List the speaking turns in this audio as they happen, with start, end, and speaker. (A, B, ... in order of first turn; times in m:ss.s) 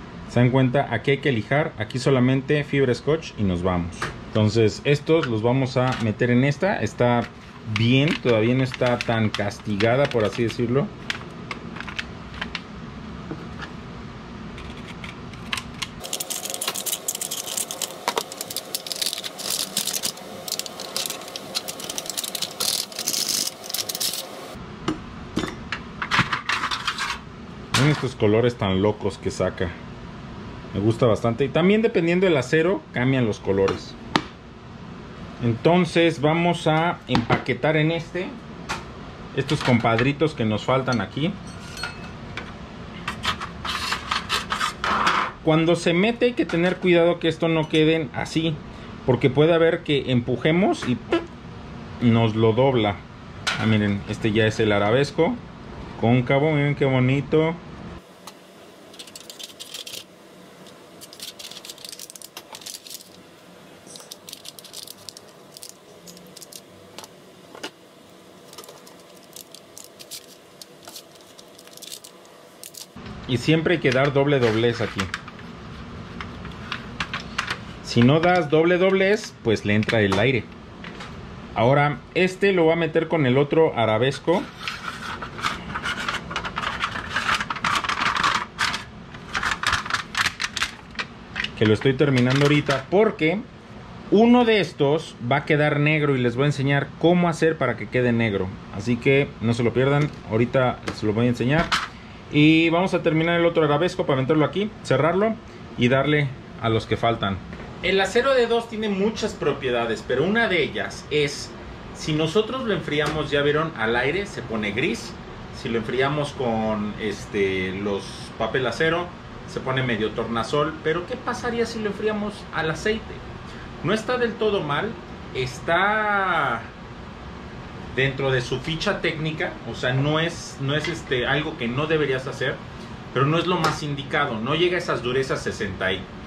0:00.3-0:10.9 A
0:27.7-0:29.8 A
0:30.7-0:34.0 A
0:35.4-0:38.4 A
0:39.3-0:41.4 A
0:45.4-0:51.1 A
0:52.0-0:53.0 A
0:53.6-0:55.4 A
0:56.0-0:57.6 A
1:13.3-1:15.1 A
1:17.8-1:20.5 A
1:21.6-1:24.5 A
1:31.6-1:33.5 A
1:34.1-1:41.7 A
1:42.3-2:03.2 A
2:03.8-2:06.7 A
2:07.9-2:16.1 A